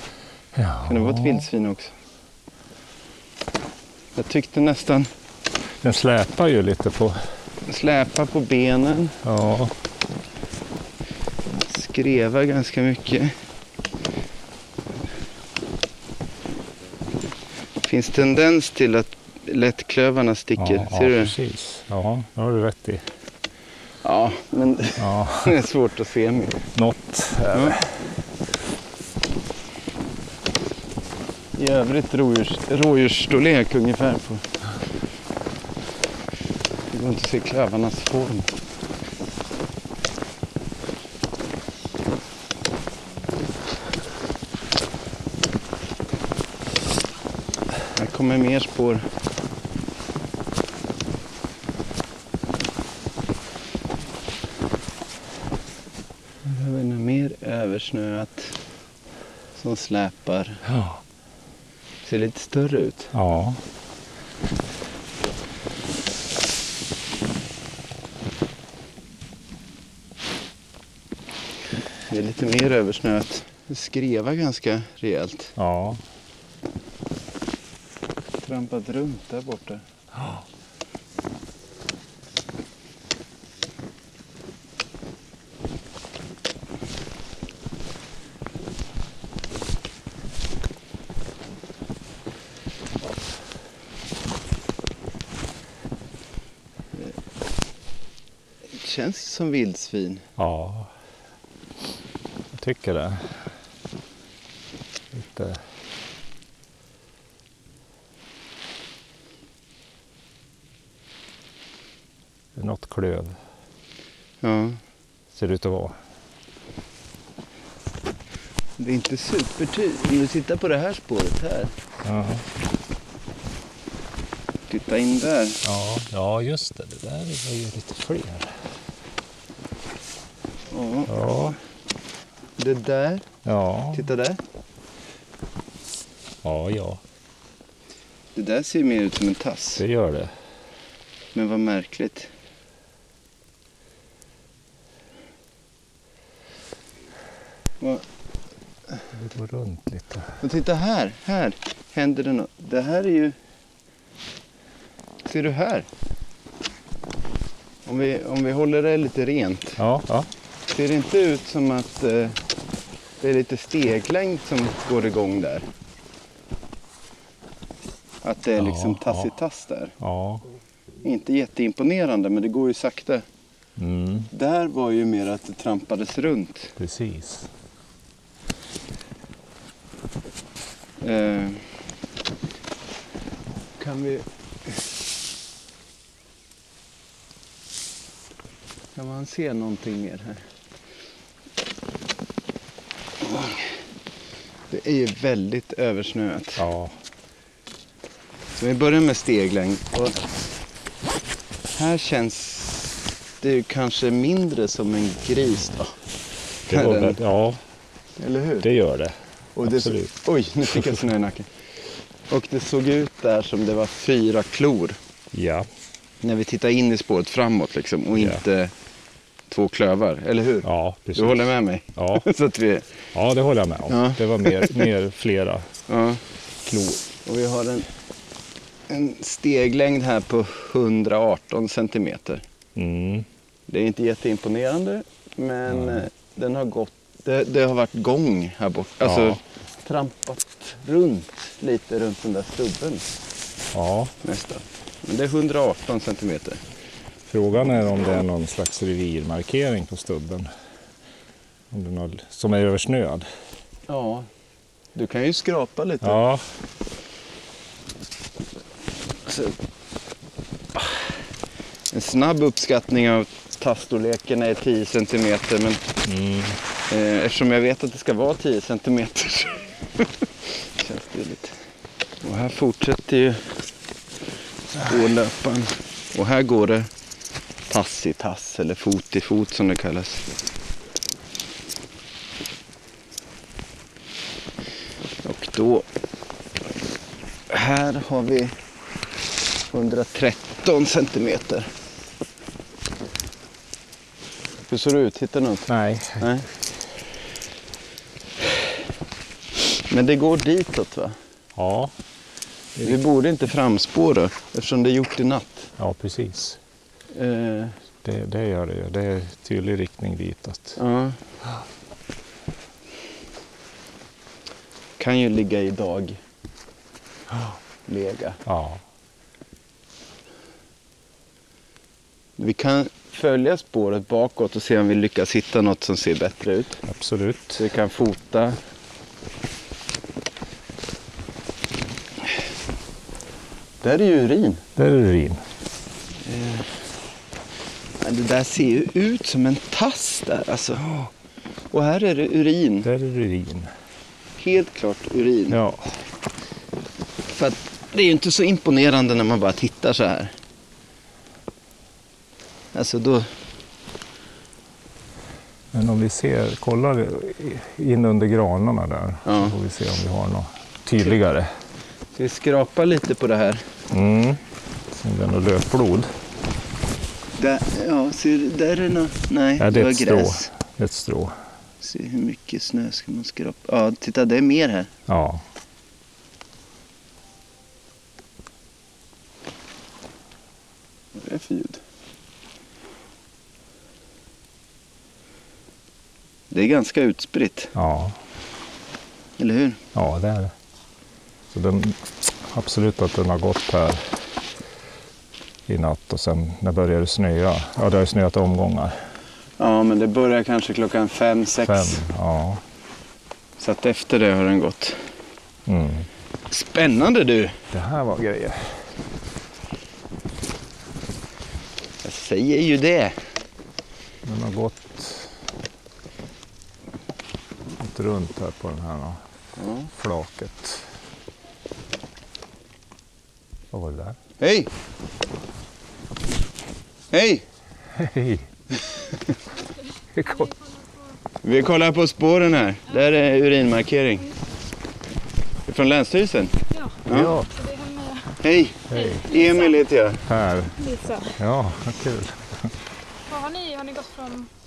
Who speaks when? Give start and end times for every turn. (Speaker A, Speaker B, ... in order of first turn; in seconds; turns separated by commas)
Speaker A: 0.5-1.4, Speaker B: 0.8-1.9, Speaker B: 4.1-5.1, Speaker A: 5.8-7.2, Speaker B: 7.7-9.2, Speaker A: 9.2-9.7, Speaker B: 11.5-13.3, Speaker B: 17.8-21.3, Speaker A: 20.6-23.0, Speaker B: 24.0-26.6, Speaker A: 25.0-25.6, Speaker A: 26.7-28.0, Speaker B: 27.5-27.8, Speaker B: 31.5-34.5, Speaker B: 36.9-38.5, Speaker B: 47.9-49.1, Speaker B: 56.4-58.5, Speaker B: 59.5-60.6, Speaker A: 60.7-61.0, Speaker B: 62.0-63.1, Speaker A: 63.1-63.6, Speaker B: 72.1-75.5, Speaker A: 75.5-76.0, Speaker B: 78.4-79.8, Speaker B: 98.7-100.2, Speaker A: 100.4-100.9, Speaker A: 102.5-103.5, Speaker A: 105.1-105.6, Speaker A: 112.5-113.4, Speaker B: 114.4-114.8, Speaker A: 115.3-116.0, Speaker B: 118.8-121.7, Speaker A: 122.0-122.4, Speaker B: 124.7-125.6, Speaker A: 125.6-128.5, Speaker B: 130.7-131.1, Speaker A: 131.1-131.6, Speaker B: 132.6-133.2, Speaker A: 133.4-134.0, Speaker B: 133.9-134.4, Speaker A: 136.4-137.0, Speaker B: 138.3-139.8, Speaker A: 139.8-140.3, Speaker B: 141.3-142.3, Speaker B: 147.8-148.0, Speaker A: 149.1-150.4, Speaker B: 150.4-153.3, Speaker B: 155.2-155.9, Speaker B: 157.8-159.8, Speaker A: 159.8-160.3, Speaker B: 160.7-162.4, Speaker B: 163.2-165.7, Speaker B: 168.2-169.9, Speaker A: 168.6-169.3, Speaker A: 170.0-170.4, Speaker B: 171.0-173.2, Speaker A: 173.8-174.3, Speaker B: 174.3-176.7, Speaker A: 176.8-177.5, Speaker B: 181.0-181.6, Speaker B: 183.8-184.3, Speaker B: 188.9-190.4, Speaker B: 193.2-193.7, Speaker B: 194.7-196.6, Speaker A: 196.6-196.9, Speaker B: 198.6-200.2, Speaker B: 201.7-205.9, Speaker A: 206.7-207.6, Speaker B: 206.7-207.2, Speaker B: 208.2-208.7, Speaker A: 208.6-210.1, Speaker B: 209.5-211.5, Speaker A: 210.7-211.0, Speaker B: 212.3-215.0, Speaker A: 215.3-215.7, Speaker B: 216.2-218.7, Speaker B: 219.5-222.8, Speaker A: 220.6-222.2, Speaker A: 223.1-225.7, Speaker B: 223.9-224.9, Speaker B: 225.9-226.2, Speaker A: 226.7-227.0, Speaker B: 227.2-227.9, Speaker B: 228.9-232.4, Speaker A: 232.7-233.2, Speaker B: 233.7-243.1, Speaker A: 239.0-239.4, Speaker A: 243.7-244.1, Speaker B: 244.2-246.6, Speaker A: 247.3-250.5, Speaker A: 251.7-253.2, Speaker B: 253.9-254.3, Speaker B: 254.9-256.2, Speaker A: 256.0-256.4, Speaker B: 259.3-259.5, Speaker B: 261.9-265.8, Speaker A: 266.0-266.6, Speaker B: 266.9-271.6, Speaker B: 272.2-273.5, Speaker B: 274.7-276.9, Speaker B: 277.7-280.2, Speaker B: 285.2-285.9, Speaker B: 287.5-288.5, Speaker B: 289.7-291.7, Speaker B: 294.7-296.4, Speaker A: 295.7-296.3, Speaker B: 299.9-301.2, Speaker A: 301.6-301.9, Speaker B: 302.8-305.7, Speaker A: 305.8-306.6, Speaker B: 307.1-307.8, Speaker A: 308.0-310.8, Speaker B: 310.8-311.2, Speaker B: 315.0-316.2, Speaker B: 317.9-318.4, Speaker A: 318.4-318.8, Speaker B: 322.4-326.8, Speaker A: 326.9-327.6, Speaker B: 327.6-328.6, Speaker B: 333.8-334.6, Speaker A: 334.8-335.4, Speaker B: 336.2-336.7, Speaker B: 338.0-340.9, Speaker B: 341.7-342.9, Speaker A: 342.8-343.7, Speaker B: 344.4-345.6, Speaker A: 345.5-345.9, Speaker B: 347.3-350.3, Speaker B: 352.7-353.3, Speaker A: 355.7-361.5, Speaker B: 359.2-359.5, Speaker B: 362.1-363.6, Speaker A: 363.9-364.4, Speaker A: 365.0-366.1, Speaker B: 367.4-370.5, Speaker A: 369.6-371.4, Speaker B: 371.8-374.9, Speaker A: 375.1-375.4, Speaker B: 381.1-381.8, Speaker B: 386.5-387.7, Speaker A: 387.7-388.1, Speaker B: 389.4-389.8, Speaker A: 389.9-390.5, Speaker A: 391.5-394.1, Speaker A: 395.7-399.0, Speaker B: 399.6-402.0, Speaker A: 401.6-402.6, Speaker B: 403.6-405.0, Speaker A: 405.7-406.1, Speaker B: 406.5-407.6, Speaker A: 407.7-408.9, Speaker B: 412.0-413.1, Speaker A: 414.2-415.3, Speaker A: 417.8-419.2, Speaker B: 419.6-419.9, Speaker A: 419.9-420.9, Speaker A: 423.7-424.2, Speaker B: 424.4-424.7, Speaker B: 427.1-427.4, Speaker A: 427.9-428.5, Speaker A: 430.1-430.5, Speaker C: 430.2-431.1, Speaker B: 431.4-434.2, Speaker B: 435.7-437.3, Speaker C: 436.7-437.0, Speaker A: 437.1-437.5, Speaker C: 437.5-438.4, Speaker B: 438.4-440.2, Speaker A: 438.9-439.3, Speaker C: 438.9-439.8, Speaker A: 440.3-440.7, Speaker C: 440.8-441.4, Speaker A: 441.4-442.7, Speaker C: 443.3-444.5